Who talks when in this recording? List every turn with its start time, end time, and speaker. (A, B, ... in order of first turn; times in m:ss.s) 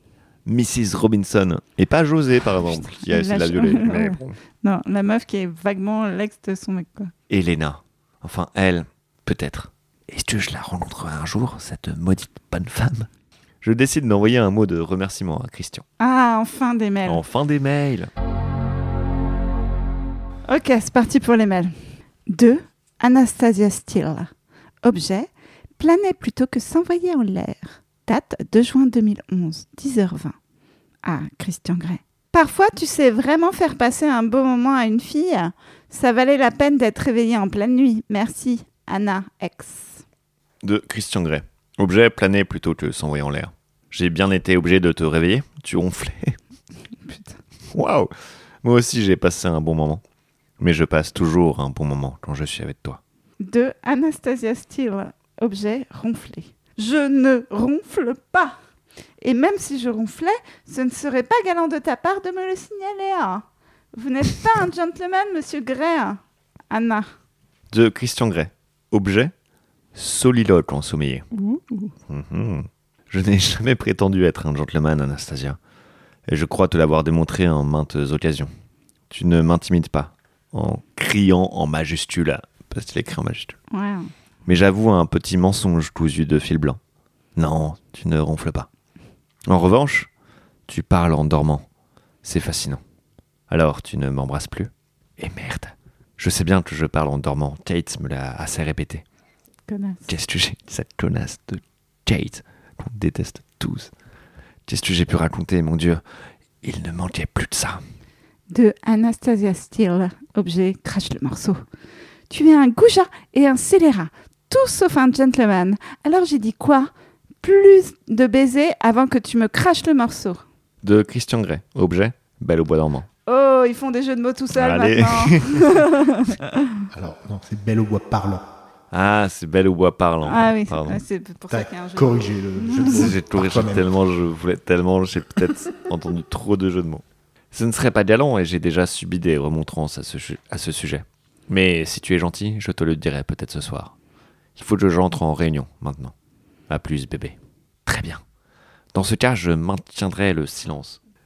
0:00.4-0:04.4 A
0:02.8-0:07.1 B
0:07.3-0:13.1 A
0:13.6-0:15.8 A
0:16.0-0:17.2 B
0:17.0-0:18.1 A
0:20.5-0:21.7 B
0:22.3-0:24.3 B
0:24.8-0:30.4 B
0:31.0-0:40.0 B
0:40.6-0:46.4 A
0:47.0-0:47.4 B
0:47.7-0:48.1 A
0:48.6-0:50.0 A
0:50.6-0:53.0 A
0:53.4-0:58.6 B
0:59.2-1:07.1 B
1:07.7-1:09.3 A
1:09.9-1:11.3 A
1:11.3-1:11.9 B
1:12.1-1:15.6 A
1:16.3-1:18.5 A
1:19.1-1:23.6 A
1:23.7-1:24.1 B
1:24.4-1:26.8 A
1:27.4-1:28.7 A
1:29.5-1:30.1 A
1:30.7-1:31.6 A
1:32.2-1:32.8 A
1:33.5-1:39.0 A
1:39.7-1:40.1 B
1:40.1-1:43.9 A
1:44.7-1:46.0 A
1:46.6-1:47.8 A
1:48.5-1:51.6 B
1:52.3-1:56.9 B
1:57.4-2:00.4 B
2:00.8-2:03.1 A
2:03.3-2:06.6 B
2:04.5-2:05.7 A
2:06.9-2:08.5 C
2:08.9-2:11.0 A
2:10.2-2:13.1 B
2:11.5-2:13.8 C
2:12.8-2:23.9 A
2:24.6-2:26.1 A
2:26.7-2:28.2 A
2:28.9-2:31.0 A